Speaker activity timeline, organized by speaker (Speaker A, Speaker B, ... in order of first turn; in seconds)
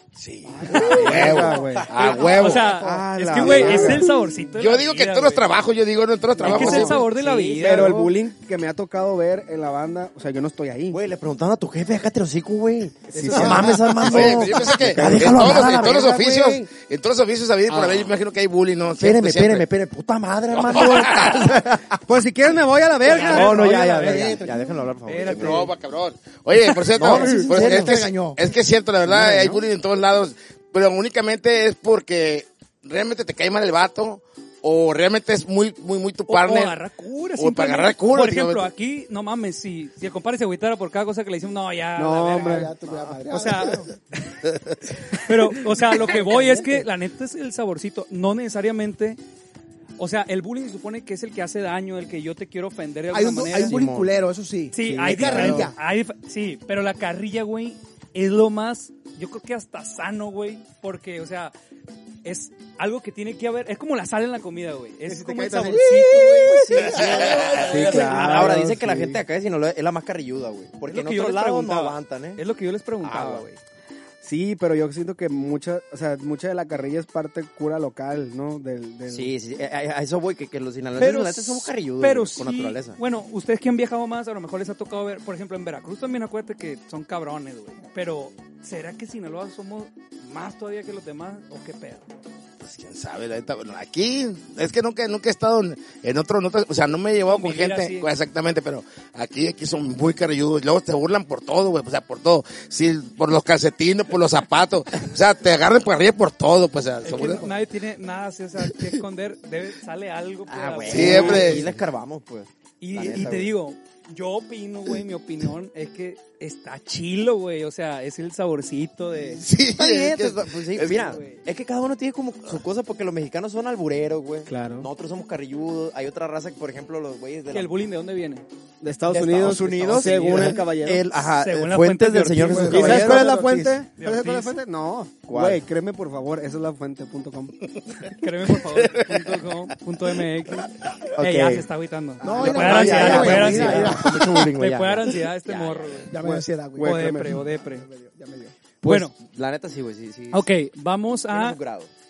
Speaker A: 0.2-2.7, 4.5-7.0, 14.0-19.7, 20.6-21.5, 25.2-36.8, 37.4-38.7, 67.0-67.6, 92.6-107.5, 110.9-111.7, 119.4-121.1, 138.7-139.3
Speaker B: 0.5-4.2, 6.4-7.0, 7.6-11.0, 13.1-15.5, 22.1-24.4, 42.0-42.7, 55.1-55.6, 67.6-69.2, 74.2-79.3, 124.5-124.9, 128.8-131.1, 132.6-137.6, 142.2-143.9, 146.2-147.4
Speaker C: 0.7-1.4, 2.0-5.5, 6.4-8.1, 13.1-13.8, 23.1-24.4, 25.1-25.7, 36.3-42.7, 43.3-44.4, 45.1-49.2, 50.0-53.8, 54.7-61.5, 62.2-67.0, 67.8-68.5, 70.9-73.6, 81.0-92.1, 97.3-98.1, 107.0-111.7, 112.8-119.4, 120.9-121.4, 127.5-128.4, 129.7-130.6, 131.2-133.2, 134.0-134.6, 138.1-146.1, 146.8-147.9, 148.8-149.2, 150.3-151.6
Speaker D: 0.8-1.1, 24.0-24.8, 27.0-28.4, 42.4-43.9, 46.0-46.5, 53.1-55.8, 65.1-68.2, 132.4-133.8, 142.2-144.5, 146.1-148.6
Speaker E: 1.0-1.4, 6.5-8.1, 10.9-16.6, 17.7-18.1, 19.0-22.0, 23.0-25.7, 26.9-28.1, 29.1-29.4, 53.5-54.1, 66.5-72.4, 73.0-73.5, 79.1-83.0, 110.5-113.5, 119.7-127.7, 129.1-133.3, 135.3-135.6, 141.2-141.7, 142.2-146.1, 148.8-150.5, 151.3-151.9